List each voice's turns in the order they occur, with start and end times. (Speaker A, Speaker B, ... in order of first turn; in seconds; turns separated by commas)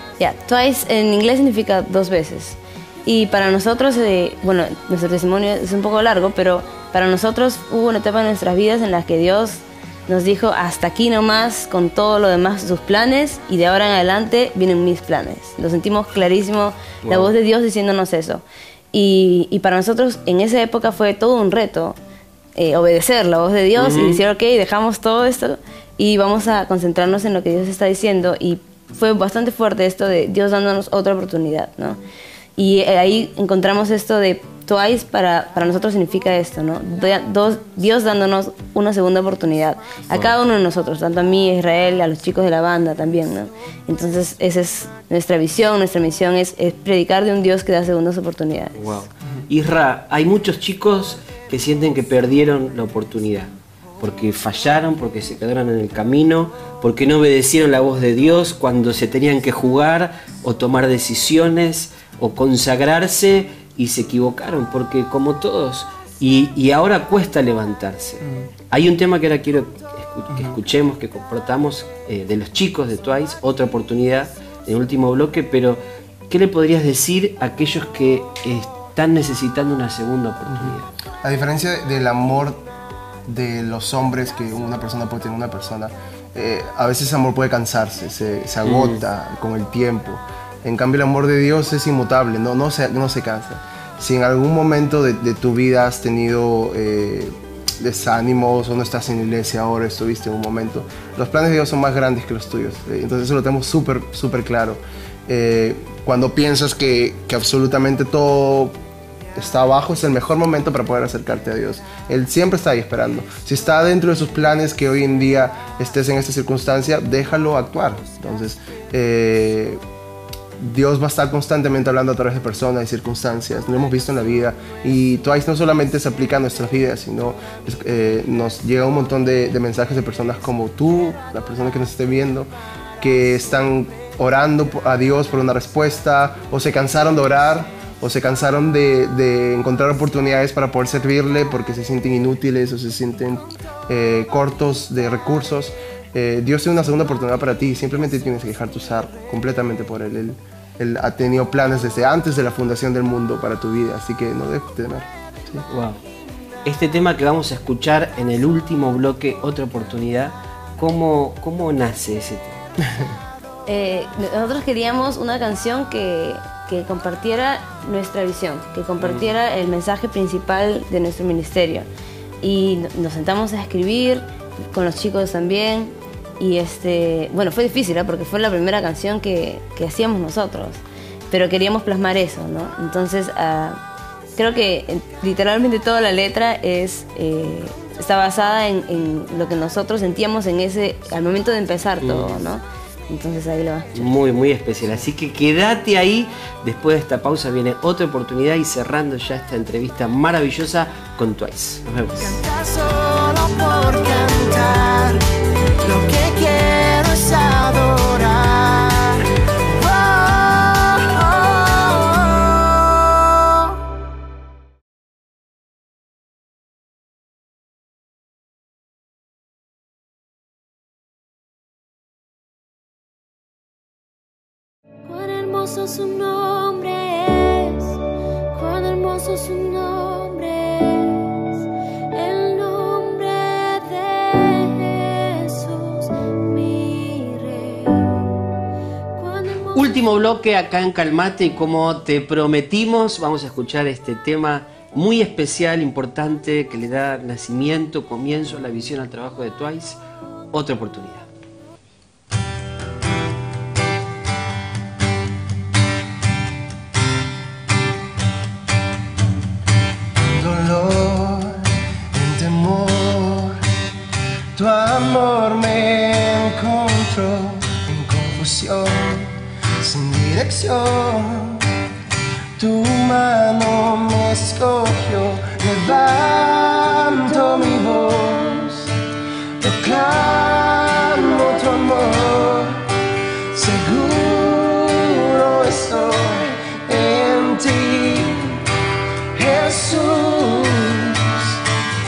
Speaker A: 0.2-22.0, Speaker B: 17.0-17.3, Speaker A: 22.6-32.0, Speaker B: 23.8-24.2, Speaker A: 32.6-49.0, Speaker B: 48.8-80.9, Speaker C: 68.2-68.5, Speaker C: 80.5-82.7, Speaker C: 83.3-108.8, Speaker B: 88.6-89.0, Speaker C: 109.4-119.8, Speaker C: 120.6-132.5, Speaker C: 133.0-155.7, Speaker B: 155.7-156.0, Speaker B: 156.7-162.6, Speaker A: 163.7-171.9, Speaker B: 169.0-169.3, Speaker A: 172.4-183.8, Speaker A: 184.4-194.1, Speaker B: 192.0-192.4, Speaker B: 193.9-202.4, Speaker C: 202.2-205.2, Speaker C: 205.8-213.7, Speaker D: 225.1-231.6, Speaker D: 232.1-238.5, Speaker D: 239.2-239.7, Speaker B: 239.6-250.0, Speaker B: 250.5-251.3, Speaker C: 260.2-263.6, Speaker C: 264.6-271.7, Speaker C: 272.6-278.9, Speaker C: 279.6-282.9, Speaker C: 283.5-288.6, Speaker C: 289.3-291.6